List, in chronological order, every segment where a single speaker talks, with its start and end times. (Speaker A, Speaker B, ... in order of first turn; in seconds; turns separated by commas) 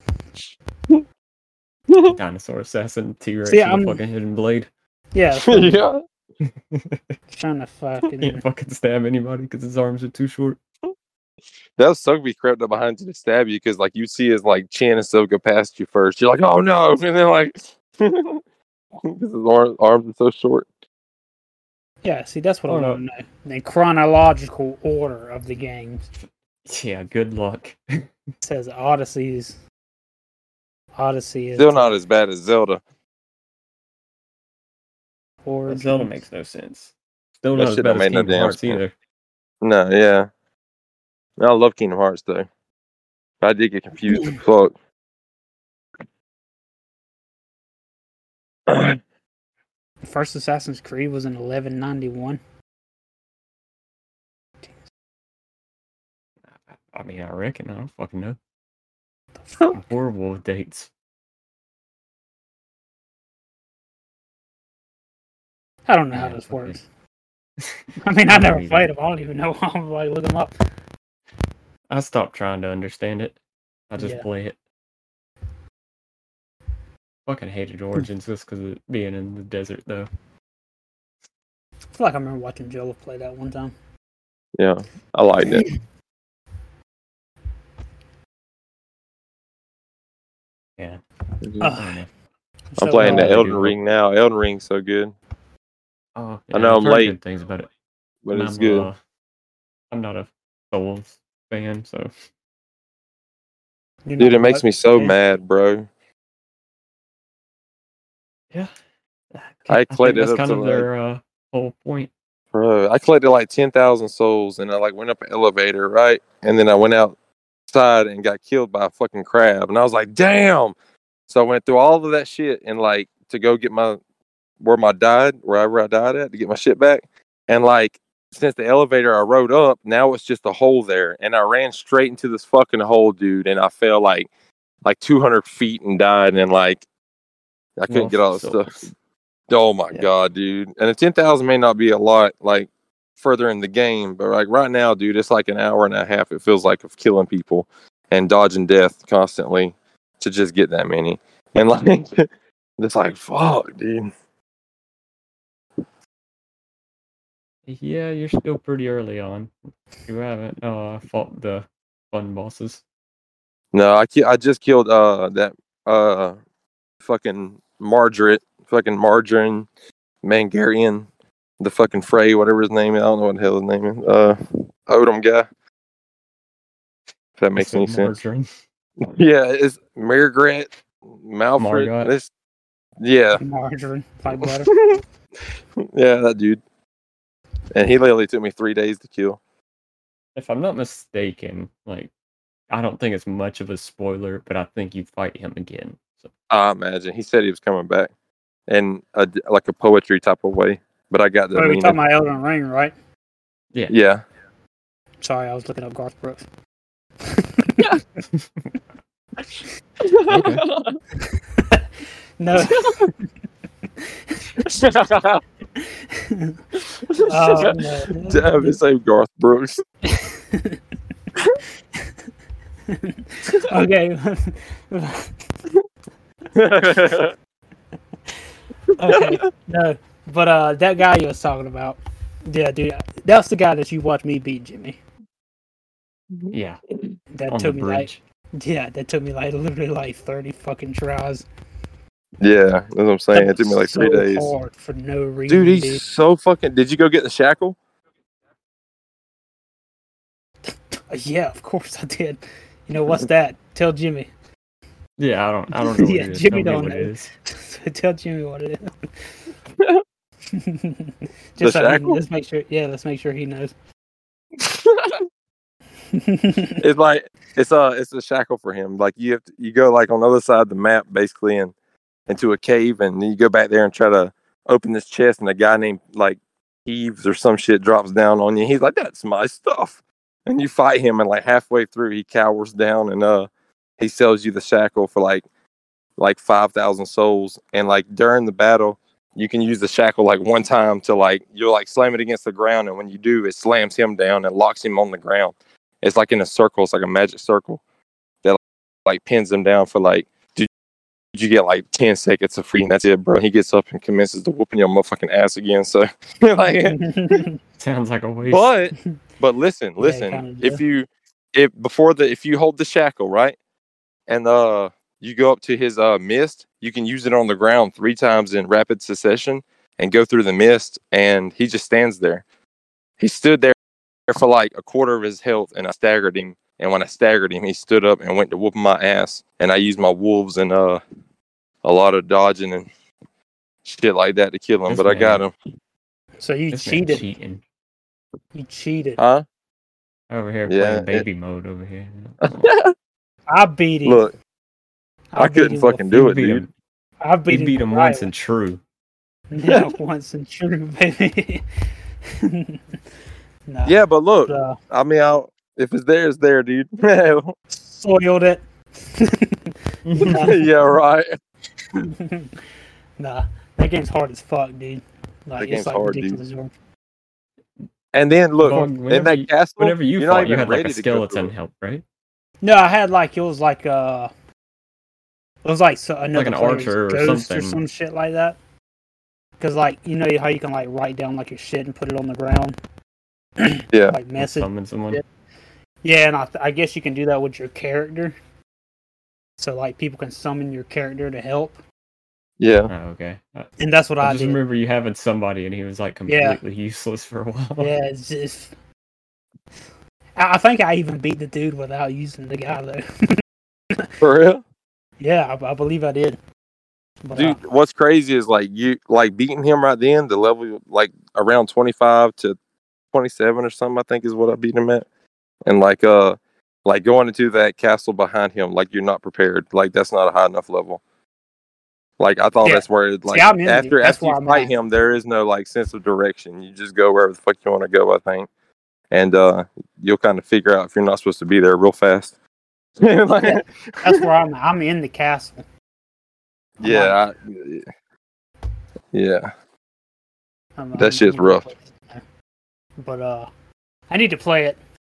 Speaker A: 1.9-2.2, Speaker B: 2.1-4.7, Speaker C: 3.5-4.0, Speaker C: 5.1-5.8, Speaker A: 5.4-6.0, Speaker B: 6.7-7.0, Speaker C: 7.3-8.4, Speaker B: 8.2-10.6, Speaker A: 11.8-18.4, Speaker A: 19.0-20.7, Speaker C: 22.0-26.1, Speaker B: 22.7-23.0, Speaker B: 26.7-28.1, Speaker C: 28.4-29.6, Speaker C: 31.0-32.0, Speaker A: 31.6-32.8, Speaker C: 35.5-36.1, Speaker B: 35.7-38.9, Speaker A: 37.5-38.8, Speaker A: 39.6-40.3, Speaker A: 41.4-42.5, Speaker A: 43.4-44.8, Speaker A: 48.7-49.0, Speaker C: 50.0-52.4, Speaker B: 56.7-58.4, Speaker B: 59.7-60.9, Speaker C: 65.9-66.8, Speaker B: 66.1-66.8, Speaker B: 67.6-68.9, Speaker C: 68.0-70.5, Speaker B: 71.9-73.4, Speaker B: 73.9-74.6, Speaker C: 74.0-74.3, Speaker B: 77.3-80.1, Speaker C: 81.9-83.7, Speaker A: 84.6-85.7, Speaker A: 91.4-91.7, Speaker C: 91.6-92.0, Speaker B: 91.7-92.1, Speaker C: 92.7-93.4, Speaker A: 92.8-95.1, Speaker B: 92.9-93.8, Speaker B: 96.2-97.7, Speaker A: 96.5-97.2, Speaker A: 98.2-98.9, Speaker B: 98.3-99.0, Speaker B: 99.9-102.1, Speaker C: 104.1-105.2, Speaker A: 104.2-105.9, Speaker B: 109.3-112.1, Speaker A: 109.7-110.9, Speaker A: 112.5-117.2, Speaker A: 117.7-120.8, Speaker A: 121.3-124.0, Speaker A: 124.6-134.3, Speaker A: 134.8-136.8, Speaker A: 137.8-138.9, Speaker B: 137.9-138.9, Speaker A: 139.5-154.1, Speaker B: 157.7-159.5, Speaker B: 160.1-162.8, Speaker A: 163.7-166.4, Speaker A: 167.0-169.7, Speaker A: 170.2-171.1, Speaker A: 171.6-175.5, Speaker A: 177.4-178.1, Speaker B: 177.6-178.5, Speaker A: 179.0-182.3, Speaker B: 181.6-182.1, Speaker A: 183.0-183.4, Speaker C: 183.3-184.8, Speaker A: 184.3-186.6, Speaker A: 187.7-189.4, Speaker B: 190.4-192.1, Speaker B: 192.7-196.3, Speaker A: 196.5-198.1, Speaker A: 198.7-202.0, Speaker C: 201.6-202.9, Speaker A: 203.9-204.2, Speaker C: 205.2-206.5, Speaker C: 207.2-208.0, Speaker A: 210.0-211.0, Speaker B: 210.3-210.7, Speaker C: 211.6-211.8, Speaker C: 212.4-213.1, Speaker A: 212.6-213.1, Speaker A: 214.6-215.4, Speaker C: 215.8-216.6, Speaker A: 216.9-219.8, Speaker C: 217.2-218.8, Speaker C: 220.0-220.8, Speaker C: 222.9-225.3, Speaker A: 226.6-227.3, Speaker C: 229.0-235.0, Speaker A: 229.0-229.4, Speaker B: 236.5-236.8, Speaker C: 237.3-241.5, Speaker B: 237.5-238.2, Speaker A: 242.4-244.5, Speaker C: 243.3-246.0, Speaker A: 245.5-247.8, Speaker C: 251.1-254.3, Speaker B: 255.2-257.3, Speaker C: 255.8-258.9, Speaker C: 260.5-263.7, Speaker A: 261.6-262.2, Speaker A: 264.6-265.2, Speaker C: 266.1-266.8, Speaker A: 266.8-271.7, Speaker A: 272.3-285.4, Speaker A: 286.2-297.8, Speaker A: 298.4-300.7, Speaker A: 301.3-307.4, Speaker C: 306.9-307.6, Speaker B: 307.8-308.7, Speaker A: 308.5-313.6, Speaker C: 310.0-310.8, Speaker A: 314.3-322.4, Speaker A: 323.2-323.8, Speaker A: 324.3-331.0, Speaker A: 331.8-332.9, Speaker A: 333.8-335.5, Speaker B: 334.9-335.4, Speaker C: 336.4-337.3, Speaker B: 336.7-337.6, Speaker C: 338.6-339.2, Speaker A: 339.2-339.4, Speaker B: 340.3-342.6, Speaker A: 340.7-341.2, Speaker A: 342.4-342.9, Speaker C: 343.5-344.2, Speaker A: 344.1-344.3, Speaker C: 345.3-346.1, Speaker A: 345.4-346.6, Speaker B: 346.1-346.7, Speaker C: 347.2-348.3, Speaker B: 347.5-348.8, Speaker C: 349.5-351.6, Speaker A: 349.7-349.9, Speaker C: 352.3-353.0, Speaker C: 353.7-354.8, Speaker A: 353.9-357.5, Speaker C: 357.7-360.7, Speaker B: 360.1-360.5, Speaker A: 360.2-361.4, Speaker C: 361.9-362.6, Speaker C: 363.2-366.7, Speaker A: 365.6-366.4, Speaker A: 368.1-371.5, Speaker B: 368.6-372.0, Speaker C: 372.6-374.3, Speaker C: 375.6-378.6, Speaker B: 376.3-377.8, Speaker C: 379.6-382.8, Speaker C: 383.6-385.2, Speaker A: 383.9-384.2, Speaker B: 384.4-385.2, Speaker C: 386.0-388.4, Speaker C: 389.6-391.8, Speaker A: 392.6-392.9, Speaker B: 392.9-397.9, Speaker C: 393.8-394.6, Speaker C: 396.3-396.6, Speaker C: 397.8-398.8, Speaker C: 400.4-403.4, Speaker A: 404.2-404.6, Speaker C: 405.2-406.4, Speaker C: 407.2-407.6, Speaker A: 407.4-412.6, Speaker A: 413.1-415.1, Speaker A: 415.6-421.0, Speaker A: 422.2-428.5, Speaker C: 422.6-424.7, Speaker A: 429.1-432.4, Speaker A: 433.0-434.3, Speaker C: 433.4-435.6, Speaker A: 436.8-437.9, Speaker C: 436.8-437.2, Speaker A: 439.1-439.5, Speaker C: 440.8-442.2, Speaker A: 441.0-441.7, Speaker C: 443.0-443.5, Speaker C: 444.1-444.8